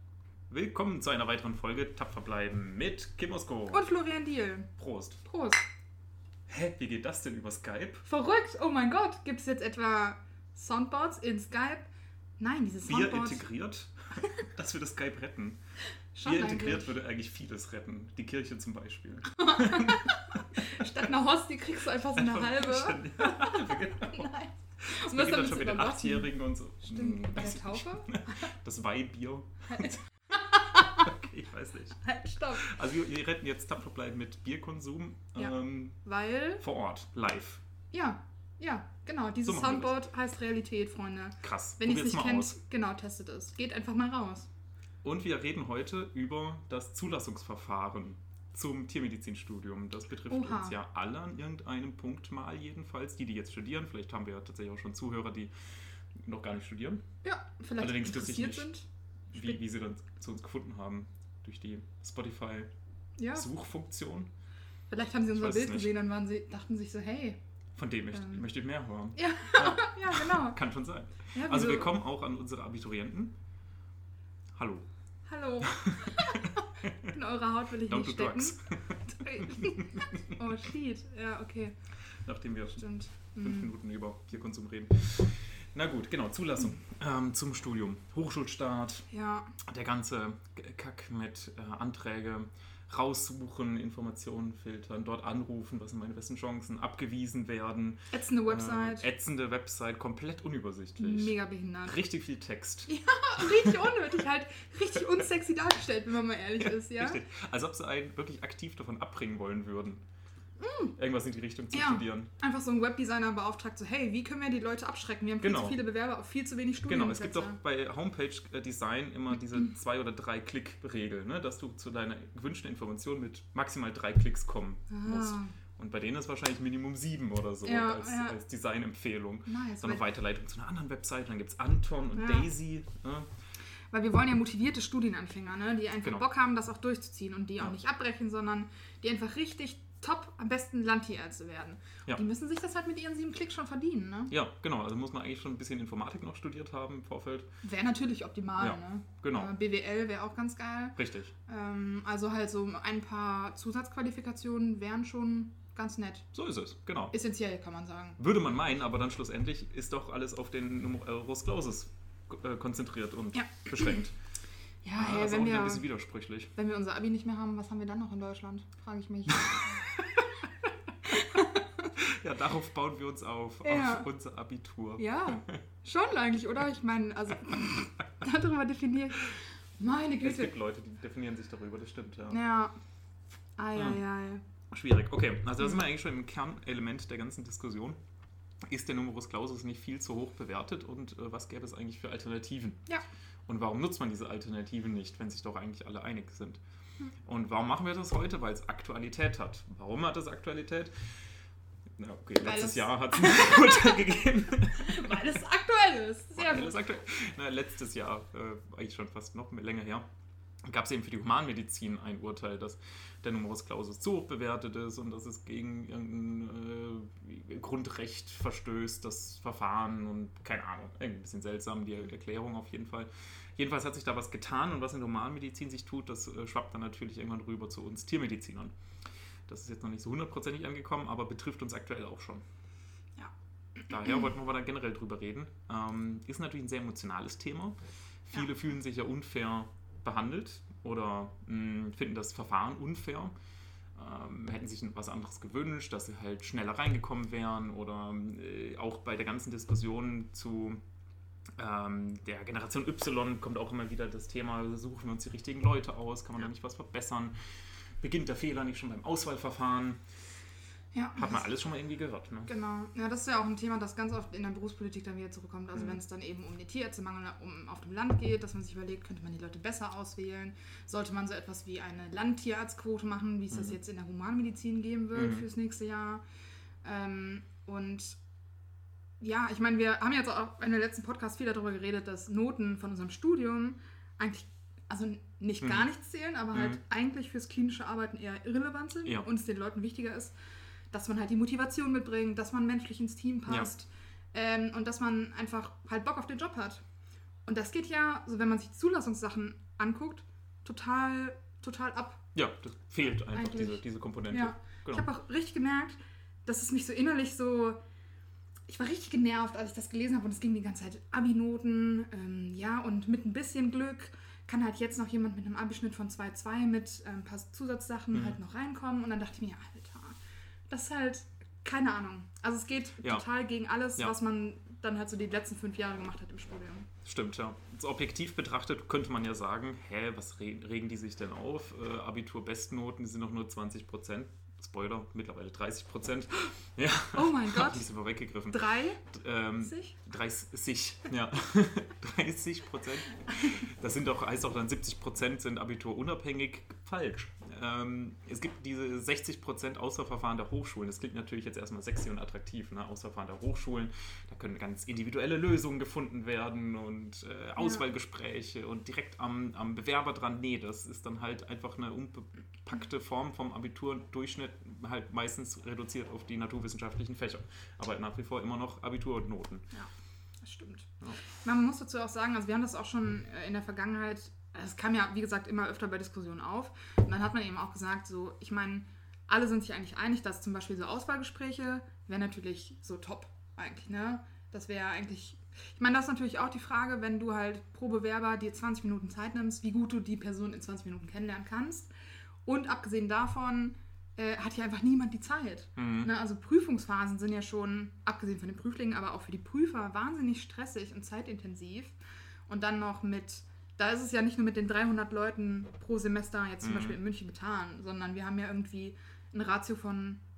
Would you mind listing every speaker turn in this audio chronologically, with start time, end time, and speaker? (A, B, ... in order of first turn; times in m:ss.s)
0:00.5-0:03.9 A
0:03.7-0:04.7 B
0:04.8-0:05.2 A
0:05.2-0:05.6 B
0:06.5-0:08.0 A
0:08.0-0:11.9 B
0:12.4-0:13.4 B
0:12.9-0:15.6 A
0:16.1-0:17.0 B
0:16.2-0:20.9 A
0:19.4-0:28.5 B
0:22.1-0:24.3 A
0:24.8-0:30.0 A
0:29.7-0:31.1 B
0:30.8-0:36.0 A
0:32.0-0:32.7 B
0:35.4-0:36.6 B
0:36.6-0:37.6 A
0:37.9-0:44.5 B
0:39.4-0:39.9 A
0:41.4-0:42.6 A
0:45.0-0:55.5 A
0:50.3-0:50.8 B
0:56.1-0:57.0 A
0:57.2-0:59.6 B
0:57.8-0:58.7 A
0:59.3-1:02.7 A
1:03.2-1:03.5 B
1:03.3-1:04.3 A
1:04.9-1:07.4 B
1:05.3-1:05.9 A
1:07.8-1:13.4 A
1:08.1-1:08.4 B
1:09.2-1:10.6 B
1:11.4-1:12.0 B
1:14.6-1:14.9 A
1:15.3-1:21.8 B
1:15.6-1:17.1 A
1:17.9-1:20.4 A
1:22.2-1:22.9 A
1:22.8-1:23.7 B
1:23.4-1:29.1 A
1:29.1-1:29.6 B
1:29.6-1:43.8 A
1:38.1-1:39.1 B
1:41.0-1:42.0 B
1:42.9-1:47.2 B
1:46.6-1:50.0 A
1:50.6-1:51.0 B
1:51.0-1:52.3 A
1:51.7-1:57.6 B
1:55.4-1:55.8 A
1:56.9-2:13.3 A
2:04.9-2:05.5 B
2:07.6-2:08.4 B
2:09.5-2:10.0 B
2:12.1-2:12.5 B
2:13.9-2:24.3 B
2:24.3-2:27.5 A
2:27.6-2:36.3 B
2:28.6-2:29.5 A
2:31.0-2:31.3 A
2:36.3-2:37.1 A
2:37.1-2:38.2 B
2:38.2-2:44.2 A
2:43.3-2:44.0 B
2:44.8-2:45.8 B
2:44.9-2:46.5 A
2:46.6-2:50.2 B
2:51.0-2:51.9 B
2:52.0-2:55.6 A
2:53.6-2:54.1 B
2:55.0-3:00.5 B
3:00.2-3:02.4 A
3:02.3-3:02.8 B
3:03.6-3:04.4 B
3:03.8-3:04.0 A
3:04.7-3:08.0 A
3:08.7-3:12.8 A
3:13.5-3:16.6 A
3:17.2-3:21.2 A
3:22.0-3:25.2 A
3:22.4-3:24.2 B
3:24.7-3:26.8 B
3:26.4-3:30.0 A
3:30.6-3:48.7 A
3:49.5-3:52.4 A
3:53.2-3:54.2 B
3:53.9-3:57.8 A
3:58.3-4:03.3 A
4:03.9-4:10.8 A
4:11.6-4:20.0 A
4:20.9-4:21.5 B
4:21.2-4:22.5 A
4:22.5-4:36.2 B
4:35.2-4:35.5 A
4:36.8-4:38.2 B
4:39.2-4:50.4 B
4:45.6-4:45.9 A
4:46.5-4:46.8 A
4:50.9-4:56.8 B
4:57.5-5:02.2 B
5:02.4-5:05.0 A
5:03.2-5:07.8 B
5:08.7-5:20.2 B
5:20.7-5:26.9 B
5:27.0-6:09.6 A
5:37.1-5:37.9 B
5:38.5-5:39.0 B
5:39.6-5:39.9 B
5:57.6-5:57.8 B
6:09.7-6:31.9 B
6:32.4-6:42.0 B
6:35.8-6:36.1 A
6:42.5-6:50.2 B
6:46.6-6:47.0 A